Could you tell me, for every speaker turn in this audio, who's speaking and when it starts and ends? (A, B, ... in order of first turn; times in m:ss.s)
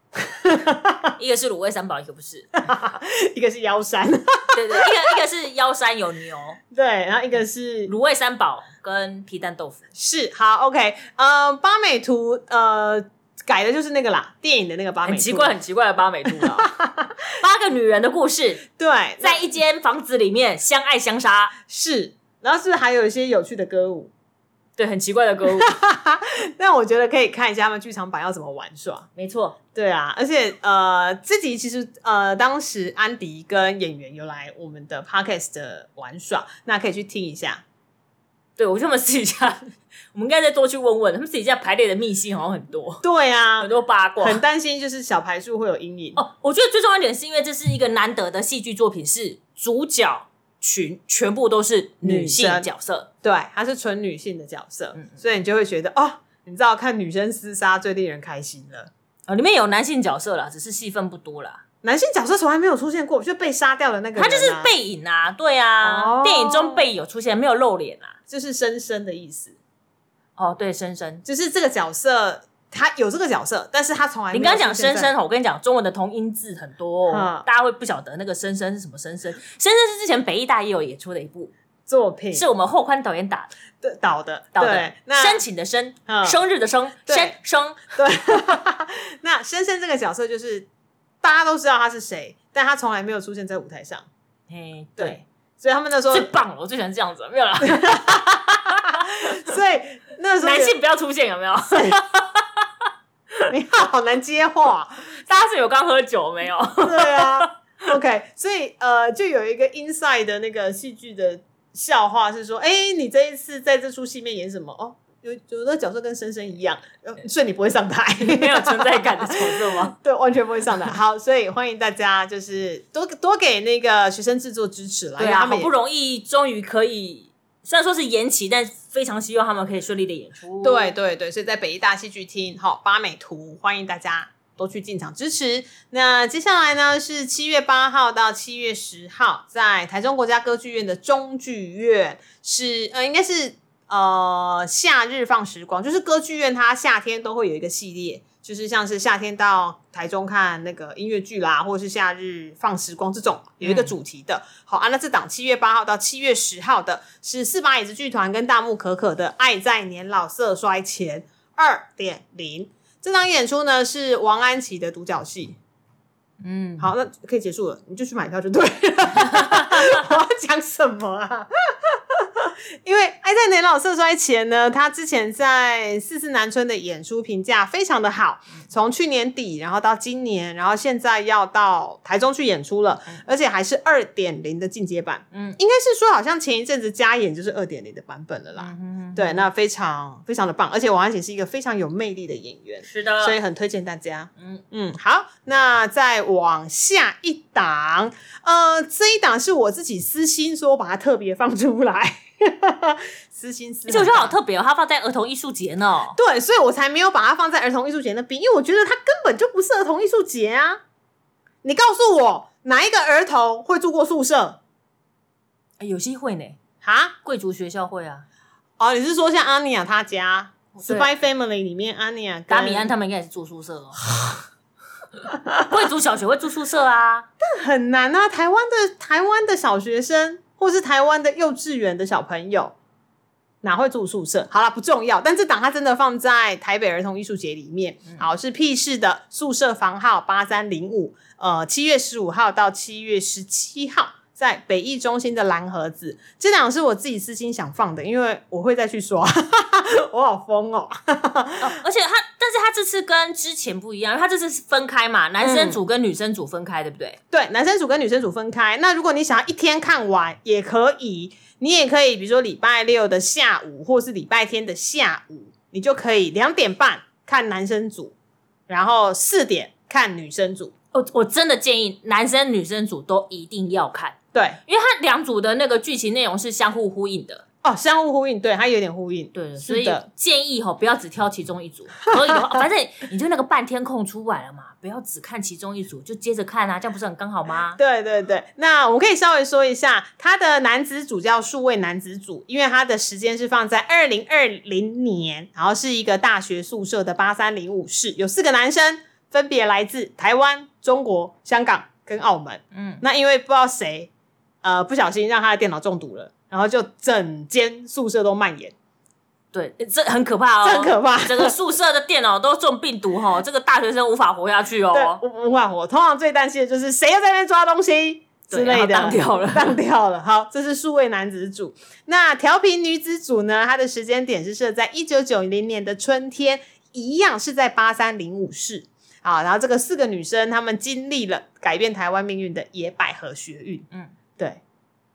0:00.2-0:01.1 A
0:01.2-0:02.6 B
0:02.6-0:05.2 A
0:04.5-0:06.6 B
0:06.7-0:07.9 A
0:07.8-0:09.8 B
0:09.9-0:15.5 A
0:15.0-0:16.7 B
0:16.3-0:17.2 A
0:17.3-0:18.6 B
0:18.8-0:19.5 A
0:19.2-0:21.5 B
0:21.7-0:24.1 A
0:24.8-0:25.7 B
0:25.6-0:29.1 A
0:29.2-0:29.6 B
0:29.7-0:37.6 A
0:38.6-0:43.0 B
0:43.0-0:46.2 A
0:43.6-0:44.4 B
0:46.2-0:53.1 B
0:52.0-0:52.7 A
0:53.2-0:58.9 A
0:59.3-1:01.6 B
1:01.8-1:04.7 A
1:04.2-1:08.2 B
1:05.8-1:06.8 A
1:08.3-1:09.6 A
1:10.4-1:11.2 B
1:11.2-1:15.1 A
1:14.3-1:21.5 B
1:17.1-1:17.4 A
1:21.9-1:22.4 A
1:22.3-1:23.5 B
1:23.8-1:25.4 A
1:24.5-1:27.9 B
1:26.1-1:26.4 A
1:27.1-1:27.3 A
1:27.9-1:30.7 A
1:31.2-1:34.1 A
1:34.5-1:35.2 B
1:35.0-1:36.3 A
1:36.1-1:39.2 B
1:37.6-1:40.8 A
1:40.4-1:42.4 B
1:41.7-1:42.0 A
1:43.5-1:45.1 A
1:45.2-1:47.5 B
1:46.8-2:05.7 A
1:58.2-1:59.9 B
2:05.2-2:10.9 B
2:10.6-2:45.6 A
2:33.6-2:33.9 B
2:46.4-2:46.9 B
2:46.8-3:24.4 A
2:49.3-2:49.9 B
3:05.3-3:05.6 B
3:08.6-3:09.4 B
3:12.8-3:13.4 B
3:14.4-3:14.6 B
3:23.9-3:26.2 B
3:26.1-3:30.8 A
3:31.6-3:34.6 A
3:35.8-3:36.6 B
3:36.8-3:37.1 A
3:37.2-3:38.2 B
3:38.8-3:42.9 A
3:40.7-3:41.1 B
3:42.5-3:44.0 B
3:45.3-3:45.7 A
3:45.6-3:47.3 B
3:47.4-3:52.7 A
3:53.6-4:11.7 A
4:11.6-4:17.2 B
4:15.4-4:15.8 A
4:17.3-4:28.1 A
4:28.7-4:30.7 A
4:30.9-4:34.2 B
4:34.3-4:34.6 A
4:34.7-4:37.4 B
4:37.6-4:40.0 A
4:39.3-4:47.8 B
4:42.1-4:42.6 A
4:47.8-5:04.1 A
5:02.7-5:03.0 B
5:04.6-5:08.7 A
5:09.5-5:15.2 B
5:10.6-5:11.5 A
5:14.9-5:33.8 A
5:18.5-5:19.8 B